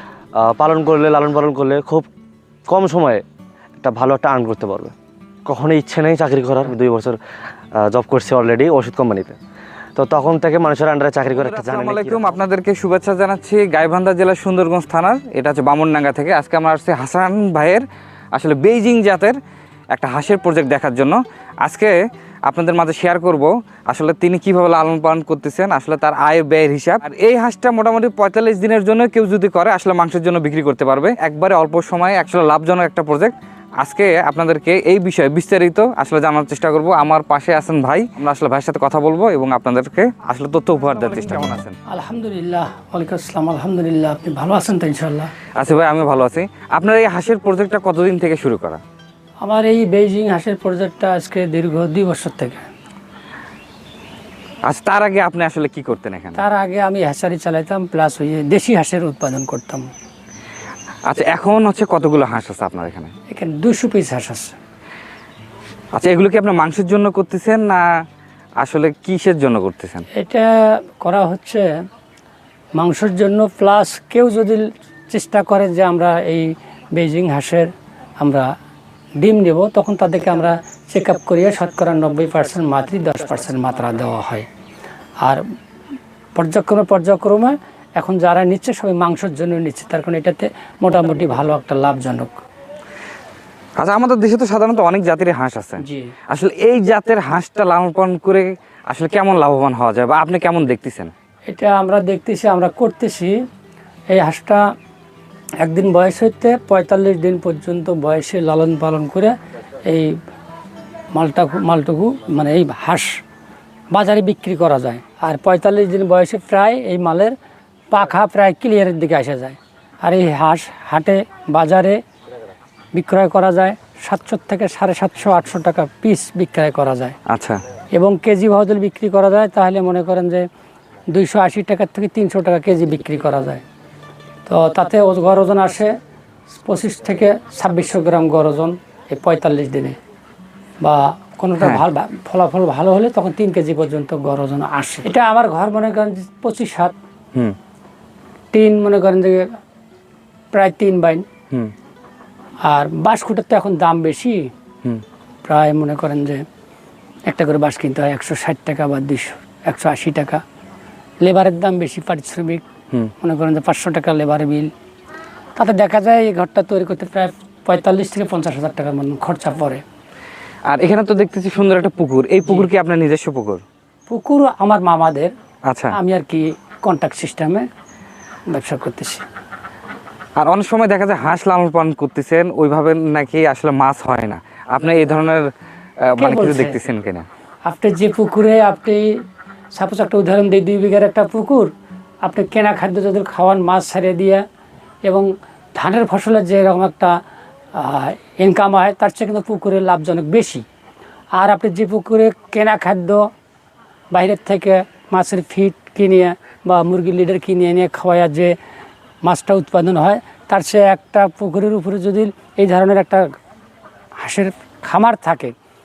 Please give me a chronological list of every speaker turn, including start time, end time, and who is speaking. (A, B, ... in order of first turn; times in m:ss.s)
0:00.4-0:02.1 A
0:02.7-0:03.2 A
0:03.8-0:04.9 A
0:05.4-0:07.2 A
0:07.8-0:09.4 A
0:10.0-0:12.3 A
0:11.3-0:19.4 B
0:19.9-0:22.0 B
0:22.5-0:41.7 B
0:41.1-0:45.3 C
0:45.6-0:48.8 B
0:49.4-0:52.6 C
0:54.6-0:56.4 B
0:56.4-0:59.9 C
1:01.1-1:03.1 B
1:03.3-1:04.5 C
1:05.9-1:07.8 B
1:08.6-1:10.0 B
1:10.2-1:10.5 C
1:11.0-1:11.6 C
1:12.8-1:17.7 C
1:18.2-1:18.4 C
1:19.2-1:24.4 C
1:26.4-1:32.4 C
1:33.8-1:41.1 B
1:35.8-1:36.1 C
1:41.5-1:43.3 C
1:44.1-1:44.6 C
1:45.6-1:49.3 C
1:51.1-1:53.1 C
1:53.9-1:57.3 C
1:57.9-2:02.0 C
2:02.9-2:07.1 C
2:07.3-2:07.6 B
2:07.9-2:10.4 C
2:11.1-2:13.6 C
2:14.5-2:15.9 C
2:16.6-2:20.0 C
2:20.8-2:26.9 C
2:28.5-2:29.4 C
2:30.5-2:31.2 C
2:32.7-2:34.4 C
2:35.4-2:36.4 C
2:37.2-2:40.4 C
2:41.2-2:42.6 C
2:43.2-2:44.7 C
2:45.6-2:49.8 C
2:50.7-2:53.6 B
2:54.1-2:55.3 C
2:55.7-2:56.0 B
2:55.9-2:57.6 C
2:58.5-2:59.2 C
3:00.4-3:05.5 B
3:06.0-3:07.2 B
3:06.2-3:06.8 C
3:07.6-3:09.0 C
3:09.7-3:11.7 C
3:12.2-3:14.4 C
3:15.0-3:17.1 C
3:17.8-3:20.6 C
3:21.4-3:23.2 C
3:24.1-3:28.5 C
3:29.2-3:33.2 C
3:34.2-3:35.5 C